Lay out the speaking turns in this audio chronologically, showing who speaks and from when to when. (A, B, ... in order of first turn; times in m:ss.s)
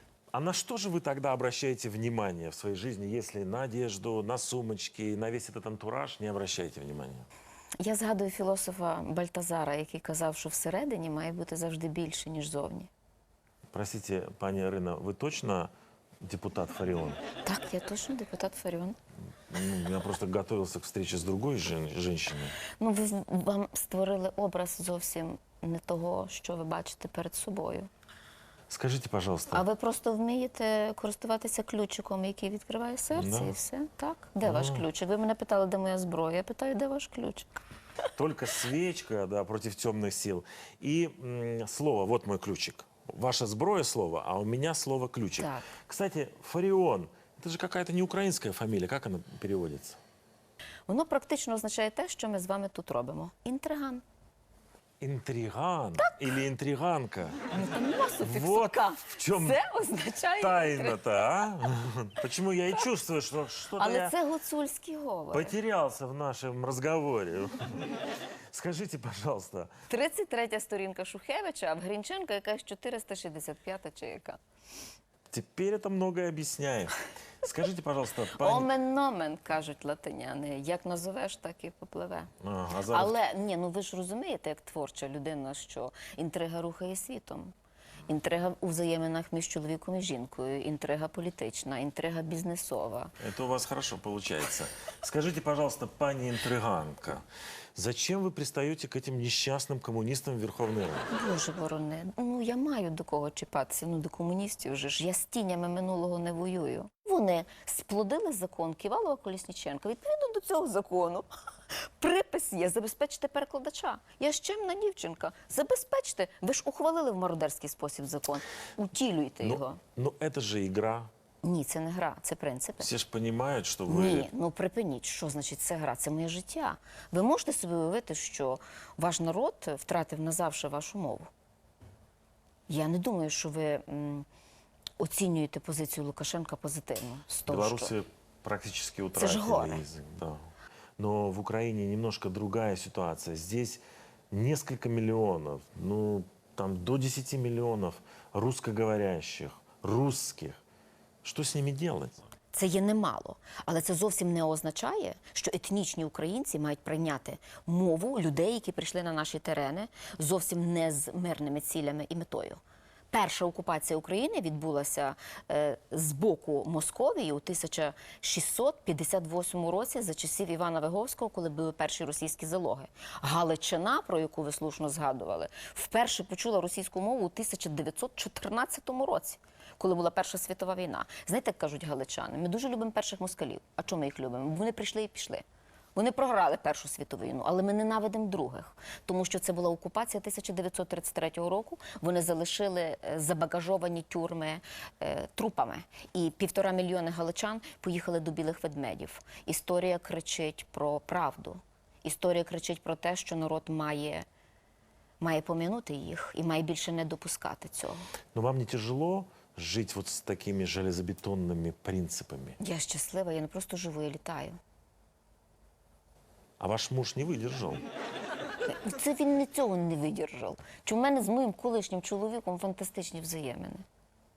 0:00.3-0:07.3 A
0:07.8-0:12.9 B
0:13.7-0:15.7 A
0:16.2-0:17.2 A
0:17.4-0:19.0 B
0:19.5-0:22.6 A
0:22.8-0:27.9 B
0:28.7-0:29.6 A
0:29.5-0:37.6 B
0:33.2-0:33.6 A
0:34.4-0:34.9 A
0:38.2-0:50.0 A
0:45.4-0:45.7 B
0:50.9-0:54.0 B
0:55.0-0:57.4 A
0:57.5-1:01.0 B
0:58.2-0:59.6 A
1:00.4-1:04.1 A
1:03.8-1:05.6 B
1:05.3-1:07.6 A
1:08.5-1:09.7 A
1:09.9-1:14.4 B
1:15.3-1:18.7 A
1:18.4-1:22.3 B
1:22.4-1:23.1 A
1:22.9-1:27.5 B
1:28.1-1:33.1 B
1:33.2-1:37.2 A
1:37.8-1:41.1 A
1:41.1-1:59.8 B
1:59.4-2:01.1 A
2:01.4-2:02.9 B
2:02.8-2:04.3 A
2:03.9-2:11.3 B
2:12.7-2:14.3 B
2:15.0-2:18.0 B
2:17.5-2:20.4 A
2:19.2-2:19.8 B
2:21.0-2:30.6 A
2:31.2-2:32.2 A
2:32.5-2:42.6 B
2:43.1-3:05.4 B
3:06.0-3:24.3 B
3:25.2-3:28.0 B
3:28.4-3:32.6 A
3:32.6-3:34.6 B
3:36.6-3:37.8 A
3:38.6-3:43.8 B